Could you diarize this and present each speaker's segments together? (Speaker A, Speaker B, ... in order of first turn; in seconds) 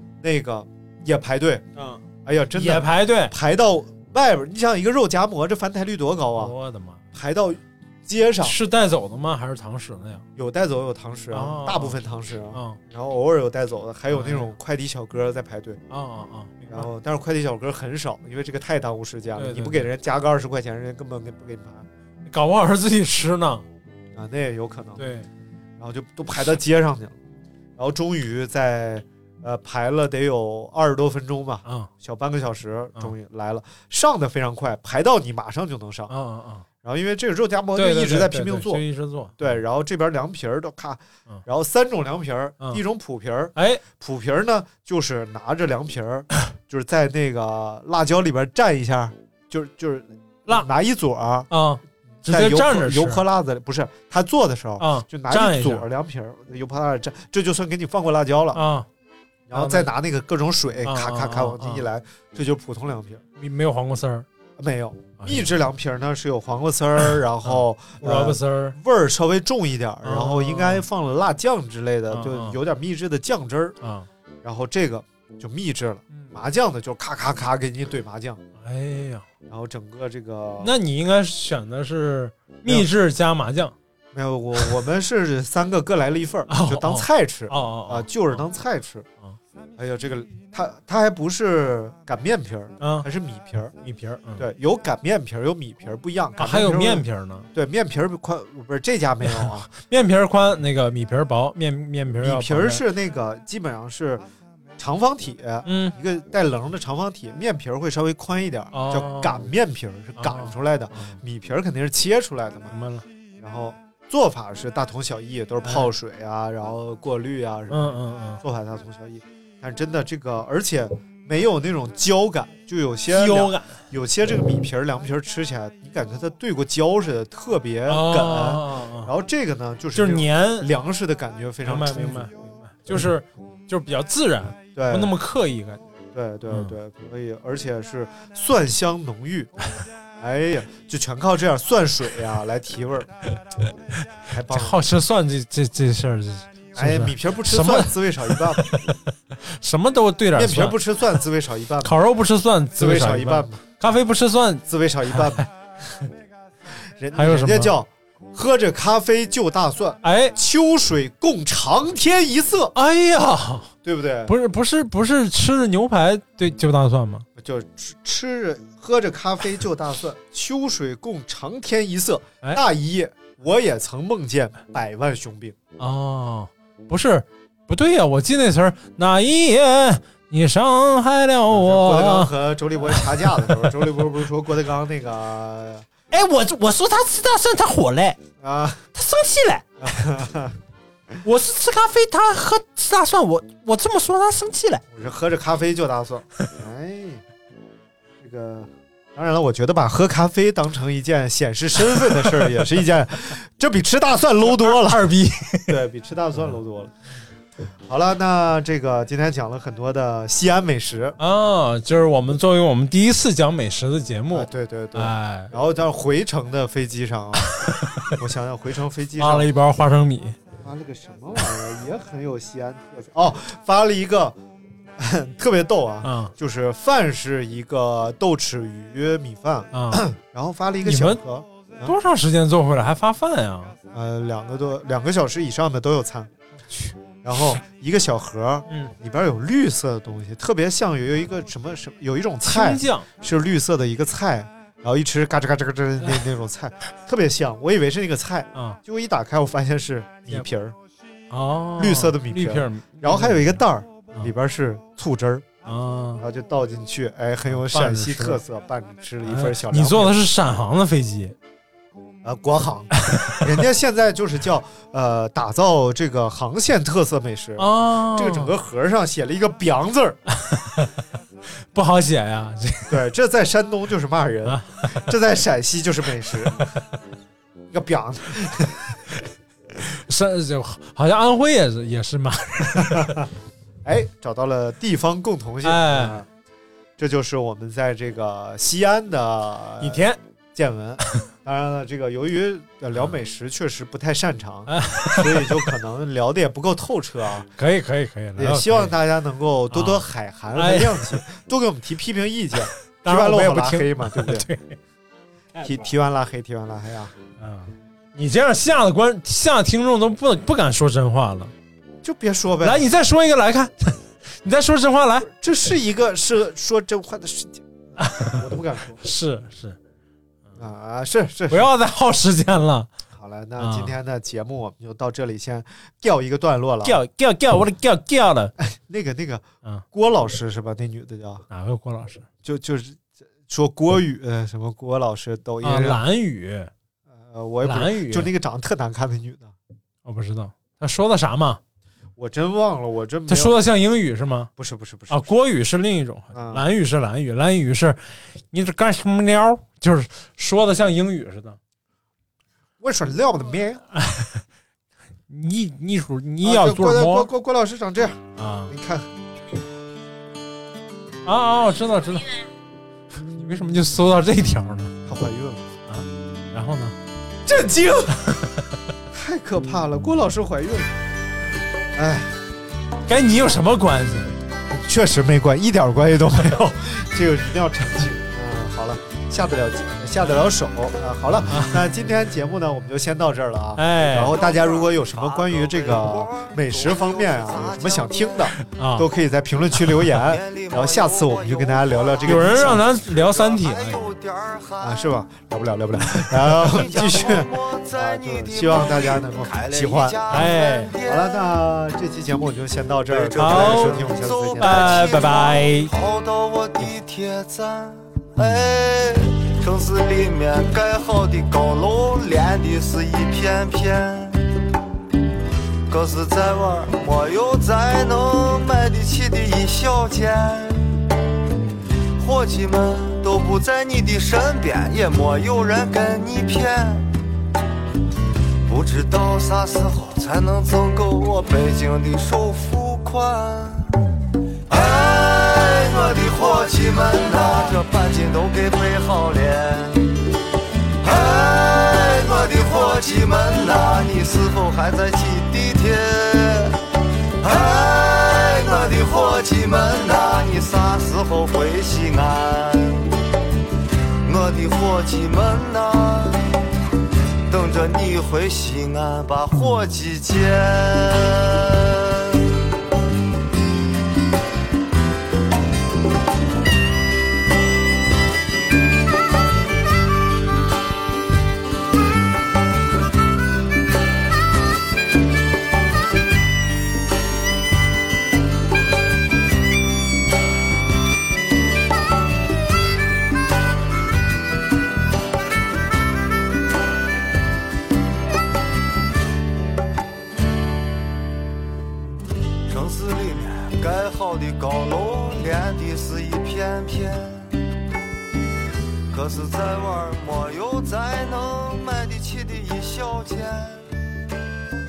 Speaker A: 0.2-1.6, 2.2-6.5, 7.1-8.6, 10.4-15.8, 16.6-21.9, 24.1-25.1, 25.8-27.2, 27.8-36.1, 36.8-38.8, 39.4-51.5, 52.2-58.6, 59.5-63.2, 64.6-73.8, 74.4-78.4, 79.5-80.8, 84.1-89.1, 89.8-93.7, 94.4-99.7, 102.2-104.2, 104.8-112.8, 113.4-132.3, 134.8-135.1, 136.1-139.5, 140.2-143.1, 144.3-144.8, 146.8-148.7, 150.4-152.0, 152.8-153.7, 154.7-155.5, 157.0-162.8, 163.8-164.3, 167.4-175.6, 181.5-185.9, 188.4-188.8, 189.8-190.6, 194.9-197.2, 198.2-205.1, 205.7-206.9, 207.9-211.2, 214.3-219.5, 220.6-224.4, 225.0-231.9, 233.9-236.3, 237.2-250.8, 251.8-255.5, 256.2-260.2, 262.2-270.2, 272.9-276.6, 277.7-279.0, 282.8-283.2, 283.9-286.3, 287.0-297.5, 298.4-304.5, 305.6-307.1, 312.0-312.9, 315.4-319.0, 320.6-321.7, 323.1-327.0, 328.6-331.4, 332.4-336.0, 337.2-339.5, 342.2-343.6, 344.6-345.3, 346.3-346.6, 352.8-353.8, 356.4-359.1, 365.1-365.7, 367.5-368.2, 369.1-371.0, 372.0-372.3, 374.7-392.9, 394.8-400.2, 400.9-405.1
Speaker B: 1.8-2.0, 2.5-3.4, 6.4-7.0, 8.4-10.2, 11.3-12.0, 12.5-12.8, 14.1-14.5, 15.9-16.9, 19.4-19.9, 22.3-23.7, 25.0-25.3, 31.7-31.9, 36.1-36.6, 37.8-39.4, 43.5-43.8, 51.5-53.2, 54.8-55.9, 58.5-58.9, 59.5-59.9, 60.9-61.9, 63.4-64.3, 65.2-65.5, 67.4-68.8, 70.0-70.9, 72.1-72.6, 73.8-74.1, 78.6-79.3, 80.6-83.8, 86.5-88.4, 92.8-93.1, 93.8-94.5, 96.4-97.5, 99.2-102.8, 105.7-106.0, 108.7-109.5, 110.2-111.2, 112.7-113.0, 115.6-115.9, 117.7-118.4, 123.1-123.8, 127.9-129.1, 129.9-130.7, 131.7-135.8, 136.5-136.8, 144.5-150.8, 151.8-154.6, 155.2-155.5, 157.1-157.8, 160.0-160.4, 162.8-163.7, 164.3-167.2, 175.8-182.3, 182.9-183.7, 186.1-188.2, 188.9-190.1, 191.2-194.8, 202.1-202.5, 204.5-205.8, 211.2-215.5, 217.5-218.1, 219.2-220.4, 226.0-226.3, 229.7-230.1, 230.8-231.2, 231.8-233.8, 236.7-236.9, 242.4-243.1, 251.3-253.6, 255.7-256.2, 257.5-258.4, 259.2-261.4, 263.0-263.4, 267.6-268.5, 270.4-270.9, 271.7-273.0, 274.4-275.1, 279.9-283.3, 285.6-286.2, 289.8-290.2, 294.7-295.6, 297.6-299.0, 299.7-301.2, 303.0-304.8, 305.6-305.9, 307.4-311.5, 312.6-315.3, 318.0-318.4, 319.0-319.8, 321.5-322.9, 323.6-324.0, 326.8-328.5, 331.5-332.2, 335.6-336.7, 337.6-338.3, 340.1-341.6, 343.3-344.5, 345.1-351.6, 353.9-354.4, 355.3-357.3, 358.4-358.7, 361.2-362.4, 363.2-364.9, 365.9-367.0, 368.2-368.8, 373.1-374.3, 381.5-381.8, 383.8-384.4, 388.6-389.1, 392.2-394.2, 396.1-396.8, 400.3-400.9, 403.3-404.1, 404.6-405.9
Speaker C: 384.1-388.5, 390.2-395.0, 396.5-401.4, 403.1-414.5, 415.9-420.9, 422.2-427.1, 428.7-434.0, 434.7-440.2, 441.0-446.8, 447.4-453.1, 454.2-456.4, 457.5-462.1, 492.7-497.5, 499.1-503.9